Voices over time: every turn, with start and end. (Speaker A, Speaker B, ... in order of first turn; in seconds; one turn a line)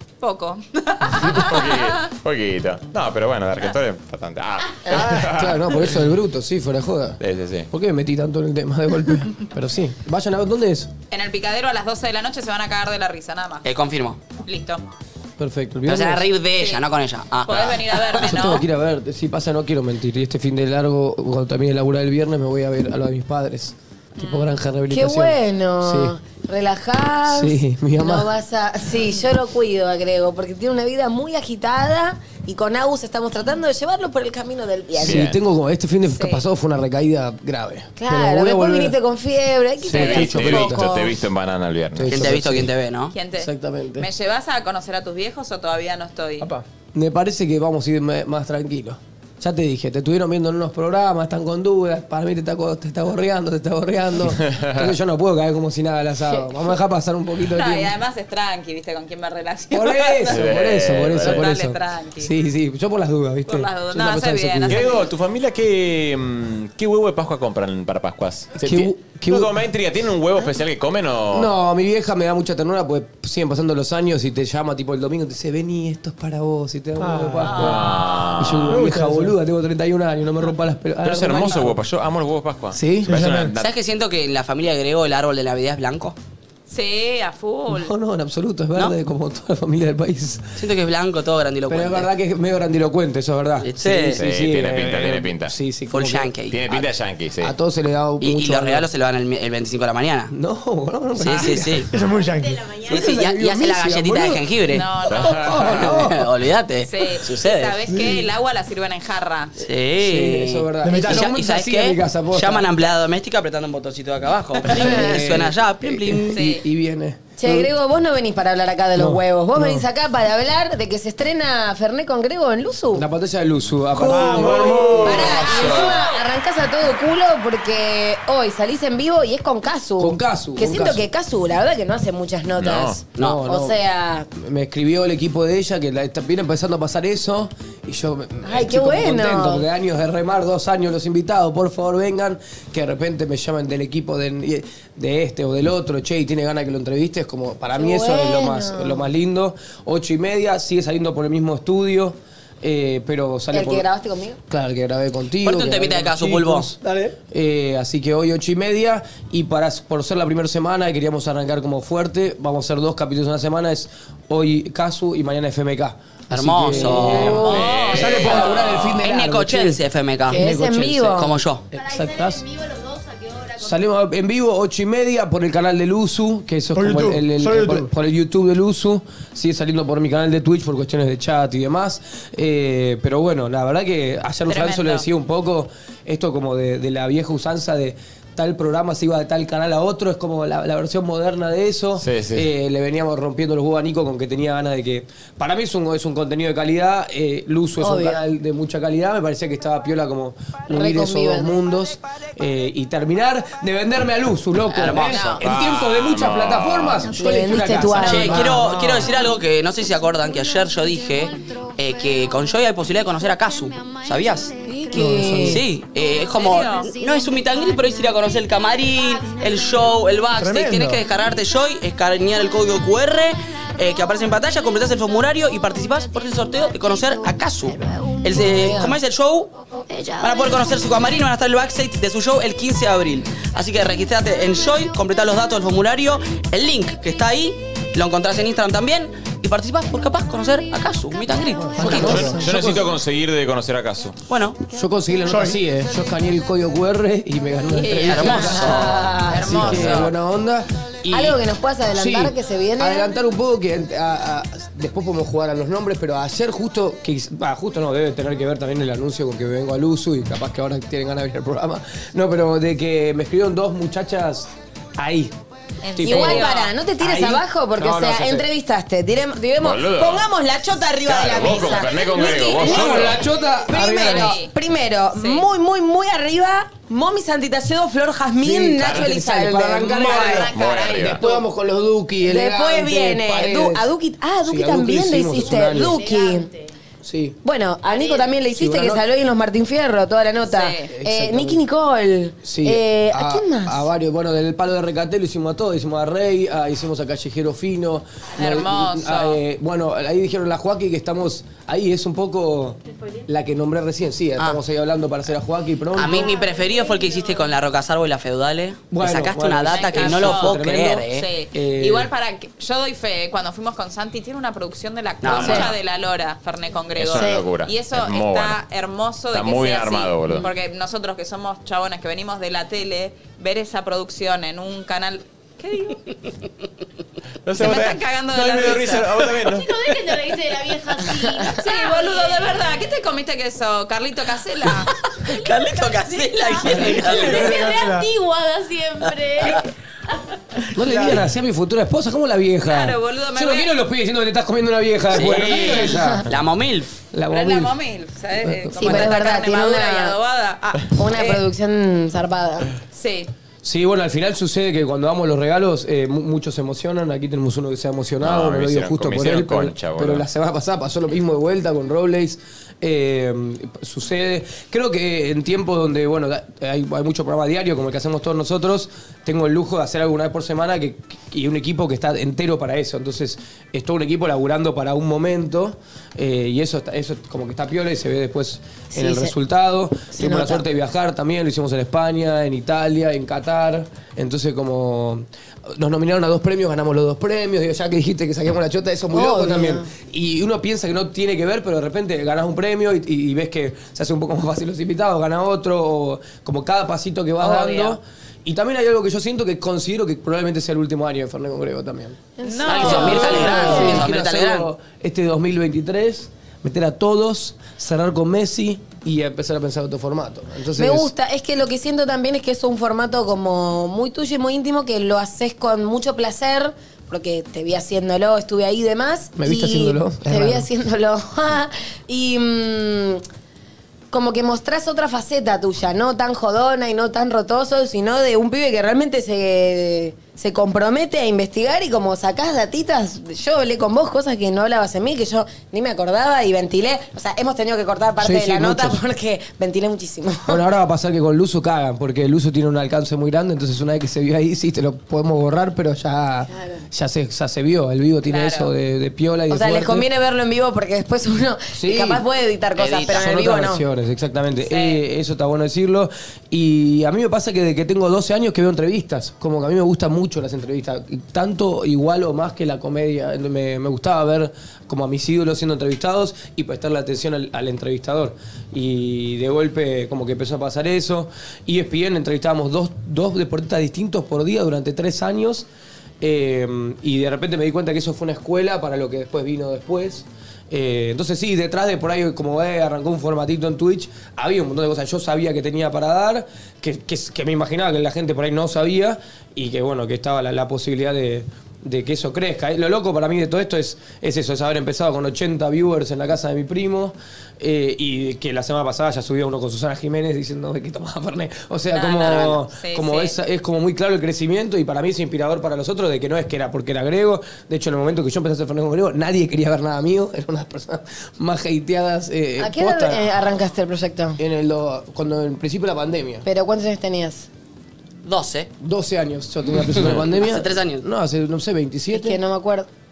Speaker A: 0.2-2.0
Speaker B: 1.1-6.0
Speaker C: 4.9-7.2
Speaker B: 7.2-7.7
Speaker C: 7.7-10.9
Speaker A: 11.1-13.7
Speaker D: 13.6-14.2
Speaker A: 14.4-14.9
Speaker C: 15.4-16.3
Speaker D: 15.9-18.3
Speaker A: 16.6-16.9
Speaker A: 17.5-18.6
Speaker C: 18.2-26.1
Speaker A: 24.2-24.5
Speaker E: 24.9-35.2
Speaker C: 27.3-28.3
Speaker B: 35.0-35.4
Speaker C: 35.0-39.0
Speaker A: 36.1-36.5
Speaker E: 38.0-41.2
Speaker C: 39.8-40.8
Speaker B: 39.9-42.3
Speaker A: 39.9-40.2
Speaker C: 42.0-42.7
Speaker D: 42.1-43.1
Speaker A: 43.1-46.5
Speaker C: 43.4-44.1
Speaker C: 46.9-57.9
Speaker B: 54.4-54.9
Speaker A: 57.4-60.4
Speaker C: 59.7-64.9
Speaker B: 60.2-61.5
Speaker A: 61.2-62.3
Speaker A: 63.5-65.0
Speaker B: 64.7-71.5
Speaker C: 68.6-69.5
Speaker C: 71.3-81.8
Speaker F: 77.0-77.7
Speaker A: 77.5-78.3
Speaker B: 77.5-78.8
Speaker F: 78.7-79.4
Speaker B: 81.0-83.7
Speaker C: 82.7-83.1
Speaker F: 83.1-83.5
Speaker D: 83.6-86.2
Speaker A: 86.7-87.9
Speaker C: 87.7-90.5
Speaker D: 90.6-92.1
Speaker C: 91.7-96.3
Speaker D: 93.6-94.2
Speaker B: 94.2-95.5
Speaker D: 95.9-96.8
Speaker B: 96.5-97.5
Speaker C: 97.4-98.9
Speaker D: 98.2-100.3
Speaker C: 100.3-101.8
Speaker D: 101.2-101.9
Speaker F: 101.9-102.7
Speaker G: 102.4-102.9
Speaker C: 102.8-104.4
Speaker D: 102.9-104.8
Speaker A: 104.7-105.5
Speaker B: 105.1-105.9
Speaker C: 105.5-105.8
Speaker D: 105.6-107.8
Speaker A: 106.8-109.5
Speaker C: 107.9-108.2
Speaker D: 109.6-116.4
Speaker C: 110.0-112.7
Speaker F: 110.8-111.2
Speaker C: 114.7-117.7
Speaker A: 116.3-116.6
Speaker E: 117.4-123.0
Speaker C: 119.0-119.9
Speaker C: 122.9-125.5
Speaker F: 124.0-125.3
Speaker B: 124.5-126.0
Speaker E: 125.0-134.3
Speaker A: 125.5-126.2
Speaker C: 130.0-131.1
Speaker B: 132.6-133.0
Speaker C: 133.2-133.8
Speaker C: 134.3-153.8
Speaker E: 138.4-139.7
Speaker E: 147.7-149.1
Speaker E: 153.5-154.4
Speaker C: 154.5-156.8
Speaker D: 155.4-156.7
Speaker F: 156.8-157.2
Speaker C: 157.3-169.8
Speaker D: 166.3-167.5
Speaker B: 167.1-169.1
Speaker A: 167.3-168.7
Speaker F: 167.9-168.4
Speaker D: 169.0-170.6
Speaker E: 170.3-171.3
Speaker C: 170.3-172.4
Speaker D: 171.1-171.6
Speaker G: 171.7-173.8
Speaker C: 173.6-208.8
Speaker F: 176.7-177.9
Speaker A: 184.5-185.1
Speaker B: 192.0-192.5
Speaker E: 197.8-198.2
Speaker E: 200.7-201.6
Speaker D: 204.7-205.4
Speaker A: 205.0-205.4
Speaker B: 205.4-207.1
Speaker E: 207.1-208.5
Speaker D: 208.0-229.5
Speaker F: 208.7-209.0
Speaker E: 214.7-215.6
Speaker C: 214.9-215.6
Speaker A: 216.3-216.9
Speaker F: 220.4-221.0
Speaker E: 228.6-228.9
Speaker D: 230.2-242.3
Speaker C: 241.8-242.9
Speaker F: 241.8-242.4
Speaker B: 241.9-244.2
Speaker D: 244.3-244.6
Speaker C: 244.7-251.4
Speaker F: 245.3-245.6
Speaker A: 247.7-250.2
Speaker D: 248.0-249.0
Speaker E: 251.1-253.1
Speaker C: 251.9-265.3
Speaker A: 265.9-266.7
Speaker C: 266.0-268.5
Speaker E: 266.0-280.5
Speaker B: 269.6-270.3
Speaker B: 271.0-273.3
Speaker A: 272.3-273.1
Speaker C: 272.6-274.4
Speaker A: 273.8-274.5
Speaker A: 275.2-275.5
Speaker C: 278.4-283.9
Speaker B: 278.8-279.2
Speaker A: 280.0-281.0
Speaker G: 280.4-281.1
Speaker B: 280.4-281.3
Speaker E: 282.2-286.5
Speaker C: 284.4-286.0
Speaker G: 285.6-286.7
Speaker C: 287.0-287.4
Speaker E: 287.4-293.9
Speaker C: 288.4-289.0
Speaker A: 290.5-290.9
Speaker C: 290.9-291.6
Speaker C: 292.4-306.3
Speaker A: 298.3-299.4
Speaker D: 305.9-311.3
Speaker G: 306.1-307.4
Speaker C: 308.9-312.1
Speaker A: 309.7-326.0
Speaker D: 315.2-315.7
Speaker B: 315.3-315.7
Speaker B: 317.0-318.6
Speaker B: 319.3-320.5
Speaker B: 327.5-330.2
Speaker A: 327.6-329.1
Speaker G: 329.4-332.5
Speaker E: 331.1-331.5
Speaker A: 331.5-334.9
Speaker D: 335.2-337.6
Speaker G: 335.5-339.6
Speaker F: 336.8-338.1
Speaker C: 340.8-346.3
Speaker F: 340.8-341.3
Speaker A: 342.7-343.8
Speaker D: 345.1-346.9
Speaker C: 347.1-347.7
Speaker A: 347.3-351.4
Speaker C: 348.4-349.1
Speaker E: 348.7-350.2
Speaker E: 350.8-352.7
Speaker A: 352.9-353.3
Speaker C: 353.6-402.2
Speaker B: 358.2-360.3
Speaker E: 378.9-379.4
Speaker E: 380.1-380.6
Speaker E: 389.1-389.9
Speaker E: 397.5-398.0
Speaker E: 402.4-404.0
Speaker A: 402.4-403.9
Speaker D: 402.7-404.7
Speaker C: 402.7-411.1
Speaker E: 410.7-423.2
Speaker C: 419.4-420.7
Speaker E: 424.1-440.6
Speaker C: 438.2-439.0
Speaker C: 440.5-450.1
Speaker E: 446.5-446.8
Speaker A: 448.2-448.7
Speaker E: 449.5-453.8
Speaker C: 451.7-452.2
Speaker D: 452.8-453.3
Speaker C: 453.1-475.6
Speaker A: 454.6-455.0
Speaker C: 476.2-513.2
Speaker A: 501.9-503.4
Speaker E: 512.6-514.4
Speaker C: 514.4-516.5
Speaker E: 516.4-517.5
Speaker D: 518.2-518.7
Speaker C: 518.8-522.4
Speaker D: 520.0-521.0
Speaker E: 522.1-522.9